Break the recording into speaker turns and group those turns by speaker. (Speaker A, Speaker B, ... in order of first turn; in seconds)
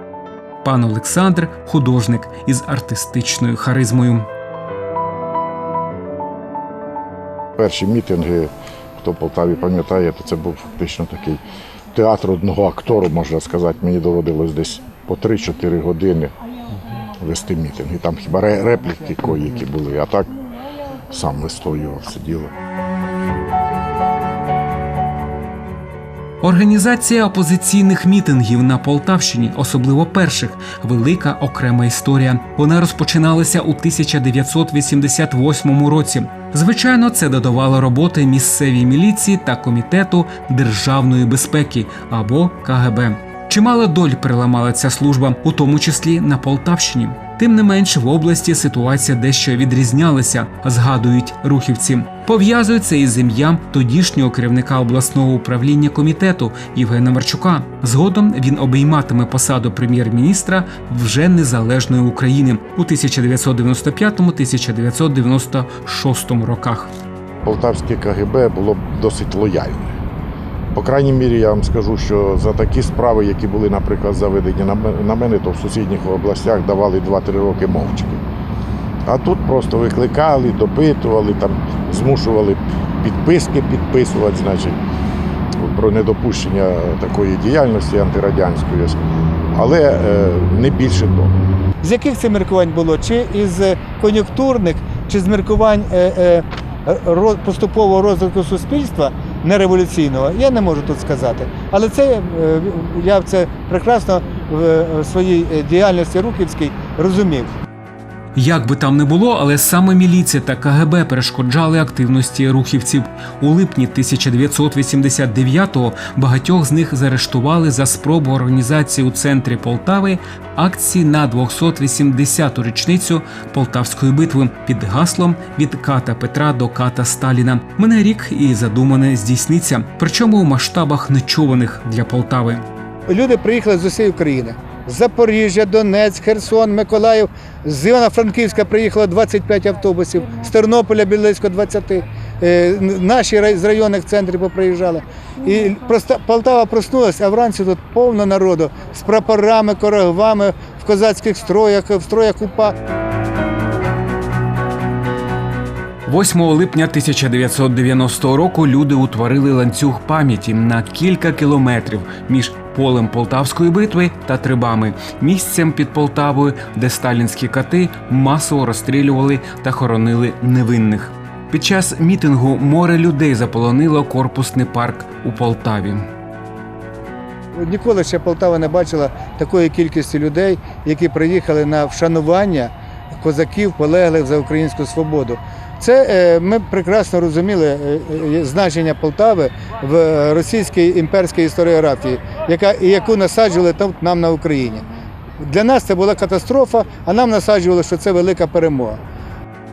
Speaker A: 0.6-4.3, 26.4-66.9, 108.3-132.7, 156.1-176.1
Speaker B: 7.6-11.4, 11.9-16.3, 17.2-20.3, 21.1-22.5, 67.4-70.0, 70.7-78.2, 79.1-84.8, 85.6-89.0, 89.5-91.3
Speaker C: 91.8-107.5, 133.1-152.8, 177.5-194.9, 195.4-199.0